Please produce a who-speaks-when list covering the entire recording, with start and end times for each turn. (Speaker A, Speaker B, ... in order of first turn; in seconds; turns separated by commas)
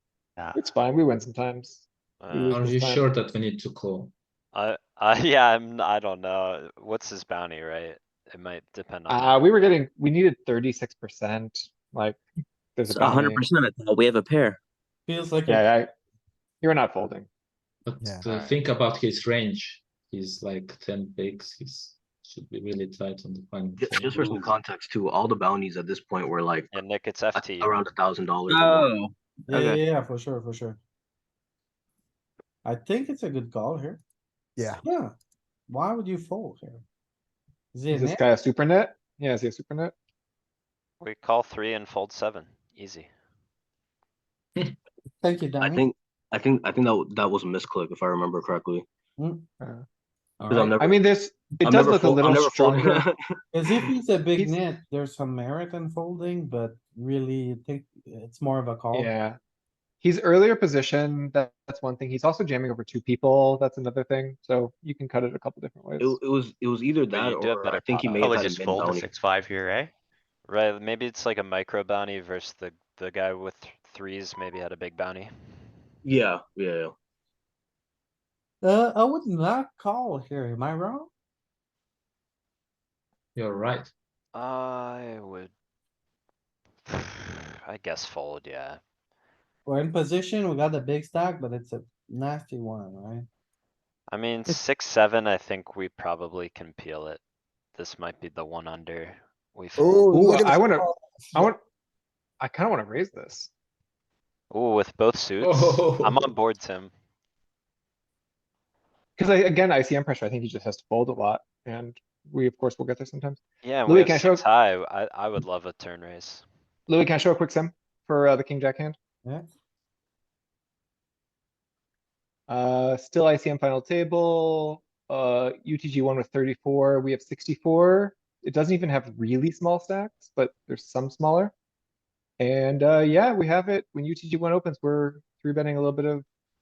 Speaker A: 0.4-0.6, Speaker B: 0.5-3.0, Speaker C: 2.2-2.6, Speaker D: 2.5-4.1, Speaker C: 4.5-9.5, Speaker B: 9.1-12.2, Speaker B: 12.8-13.5, Speaker E: 12.9-14.6, Speaker F: 15.1-15.7, Speaker B: 15.5-15.9, Speaker B: 16.6-17.3, Speaker D: 17.8-24.6, Speaker G: 23.8-26.7, Speaker C: 26.7-27.8, Speaker G: 27.4-28.9, Speaker E: 28.5-29.8, Speaker F: 29.5-30.8, Speaker F: 32.6-34.0, Speaker H: 34.6-34.8, Speaker F: 34.8-35.1, Speaker F: 35.7-36.8, Speaker F: 37.7-38.2, Speaker B: 37.9-39.9, Speaker C: 41.0-43.1, Speaker F: 45.2-45.9, Speaker G: 45.6-48.9, Speaker F: 49.2-49.5, Speaker F: 50.4-50.7, Speaker G: 50.5-51.0, Speaker B: 50.7-53.0, Speaker G: 51.6-53.1, Speaker F: 53.5-59.1, Speaker B: 58.9-59.4, Speaker B: 60.0-66.2, Speaker G: 66.0-69.1, Speaker C: 67.1-68.5, Speaker A: 68.2-69.9, Speaker C: 70.5-75.3, Speaker G: 76.0-76.9, Speaker F: 78.6-81.1, Speaker D: 83.3-83.9, Speaker C: 84.3-85.5, Speaker C: 86.9-88.8, Speaker F: 89.6-93.3, Speaker C: 94.1-97.2, Speaker C: 97.8-100.1, Speaker H: 99.8-101.5, Speaker B: 100.1-101.6, Speaker B: 102.4-103.5, Speaker C: 104.5-106.9, Speaker D: 105.4-106.3, Speaker B: 109.2-114.4, Speaker C: 113.6-116.4, Speaker B: 116.9-119.0, Speaker B: 122.5-131.5, Speaker B: 132.4-136.2